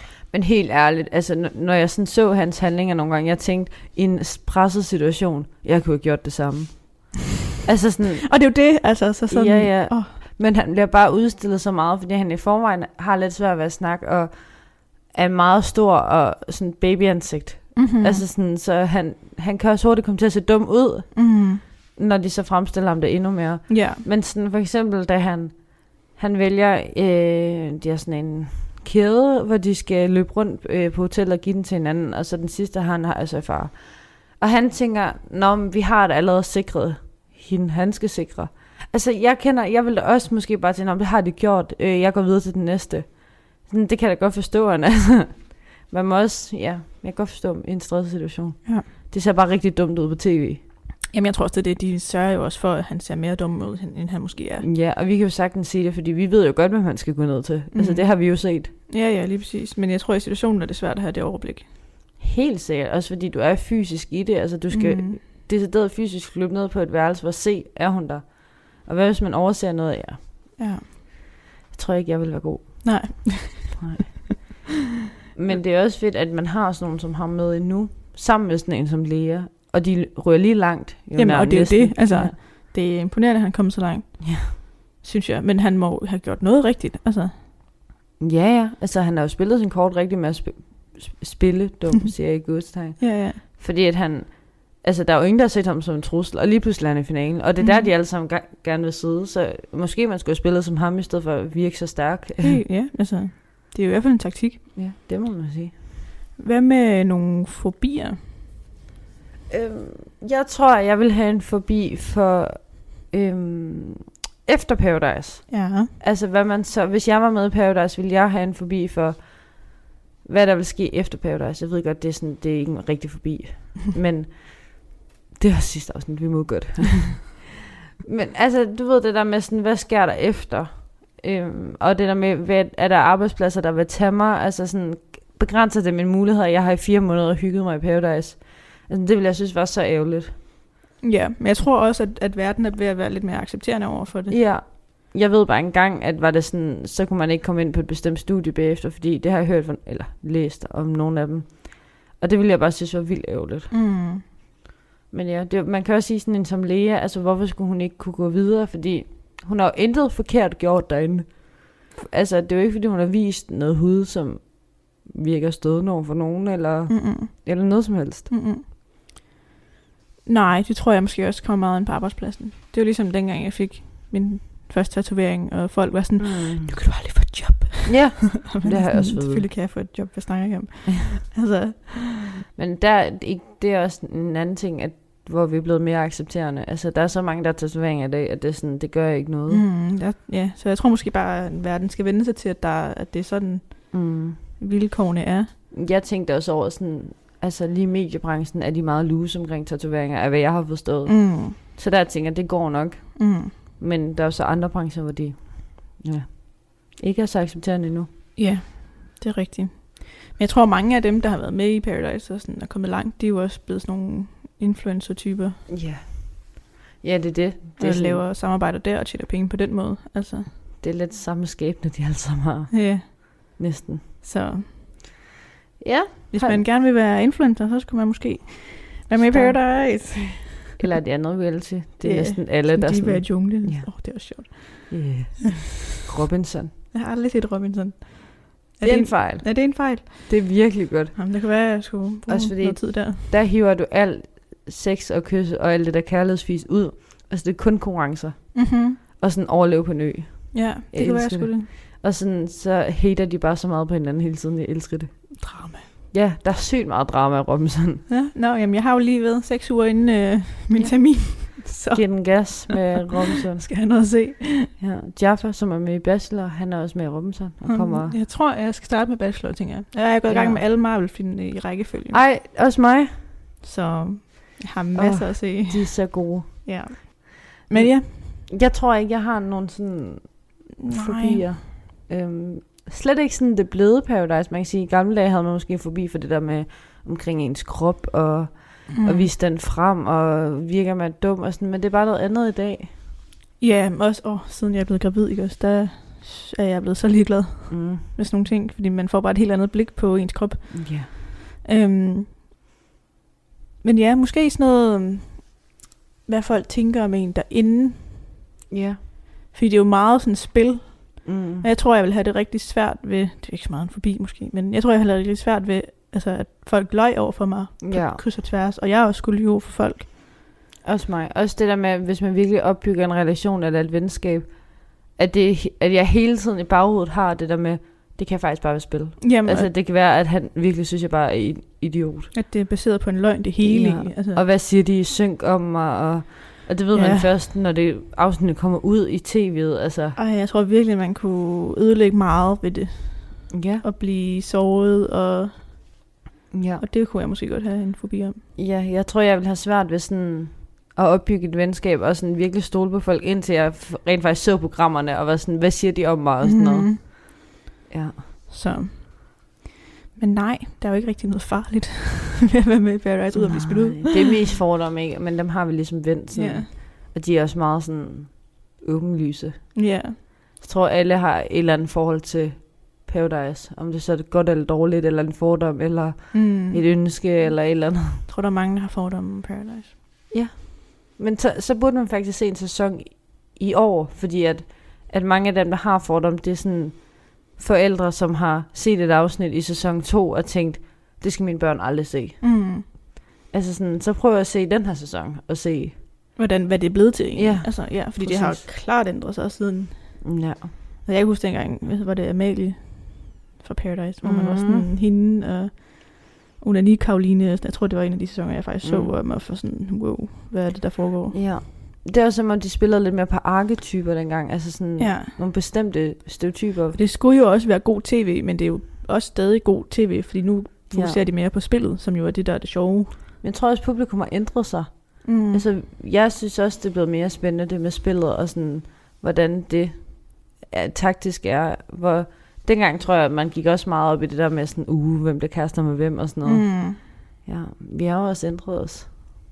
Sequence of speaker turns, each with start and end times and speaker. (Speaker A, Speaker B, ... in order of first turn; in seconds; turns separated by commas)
Speaker A: 0.3-8.4, Speaker B: 8.2-10.2, Speaker A: 9.3-50.6, Speaker B: 17.8-18.2, Speaker B: 21.1-21.6, Speaker B: 23.7-24.0, Speaker B: 51.1-54.7, Speaker A: 54.6-58.7, Speaker B: 57.7-61.7, Speaker A: 62.2-70.6, Speaker B: 64.7-65.2, Speaker B: 70.6-70.8, Speaker A: 71.7-74.6, Speaker B: 72.8-74.1, Speaker A: 75.3-82.4, Speaker B: 81.2-87.3, Speaker A: 84.2-84.5, Speaker A: 88.2-102.6, Speaker B: 93.0-93.4, Speaker B: 97.6-97.9, Speaker B: 102.4-104.6, Speaker A: 104.8-105.7, Speaker B: 106.4-108.2, Speaker A: 109.5-127.5, Speaker B: 115.5-115.9, Speaker A: 128.0-140.3, Speaker B: 141.0-144.4, Speaker A: 144.3-153.7, Speaker B: 153.7-154.2, Speaker A: 155.1-168.3, Speaker B: 166.9-167.7, Speaker B: 168.3-168.6, Speaker B: 170.3-182.3, Speaker A: 176.2-176.7, Speaker A: 177.9-179.5, Speaker A: 182.6-189.6, Speaker B: 189.5-195.5, Speaker A: 193.9-194.4, Speaker A: 195.7-208.1, Speaker B: 201.1-201.6, Speaker B: 203.2-203.5, Speaker B: 208.4-215.6, Speaker A: 215.7-218.2, Speaker B: 217.8-220.5, Speaker A: 220.8-224.0, Speaker B: 222.7-223.1, Speaker B: 224.2-224.7, Speaker A: 225.8-226.7, Speaker B: 226.3-230.7, Speaker A: 229.2-229.6, Speaker A: 230.8-236.7, Speaker B: 232.0-235.0, Speaker B: 236.9-240.4, Speaker A: 238.8-241.2, Speaker B: 241.2-243.3, Speaker A: 242.3-255.4, Speaker B: 248.6-249.0, Speaker B: 250.5-251.7, Speaker B: 255.4-255.9, Speaker A: 256.1-258.1, Speaker B: 258.1-263.0, Speaker A: 260.7-263.7, Speaker B: 263.6-264.7, Speaker A: 264.8-268.1, Speaker B: 267.6-272.2, Speaker A: 270.3-270.6, Speaker A: 272.1-273.3, Speaker B: 273.6-278.4, Speaker A: 274.9-292.9, Speaker B: 280.8-281.6, Speaker B: 288.9-289.3, Speaker B: 293.6-302.3, Speaker A: 297.7-298.1, Speaker A: 300.7-301.1, Speaker B: 303.8-308.3, Speaker A: 308.7-309.0, Speaker B: 309.5-320.1, Speaker A: 311.2-311.7, Speaker A: 317.8-318.2, Speaker A: 320.8-332.3, Speaker B: 329.2-329.7, Speaker B: 332.3-334.4, Speaker A: 333.6-340.2, Speaker B: 336.9-337.3, Speaker B: 340.2-345.9, Speaker A: 343.5-343.8, Speaker A: 346.5-346.8, Speaker B: 346.8-348.4, Speaker A: 348.6-357.2, Speaker B: 356.4-357.0, Speaker A: 357.9-358.2, Speaker B: 358.5-359.4, Speaker B: 360.2-364.3, Speaker A: 363.4-369.8, Speaker B: 366.3-366.7, Speaker B: 369.8-370.2, Speaker A: 370.6-378.2, Speaker B: 376.3-376.8, Speaker B: 378.2-380.0, Speaker A: 380.3-392.9, Speaker B: 392.4-392.9, Speaker A: 393.5-396.0, Speaker B: 396.4-400.3, Speaker A: 397.4-398.7, Speaker A: 400.2-400.7, Speaker B: 401.1-411.4, Speaker A: 404.2-404.9, Speaker A: 408.8-409.1, Speaker A: 411.3-417.0, Speaker B: 415.0-415.3, Speaker B: 416.9-423.2, Speaker A: 420.9-421.2, Speaker A: 423.4-439.1, Speaker B: 425.2-425.6, Speaker B: 436.4-437.0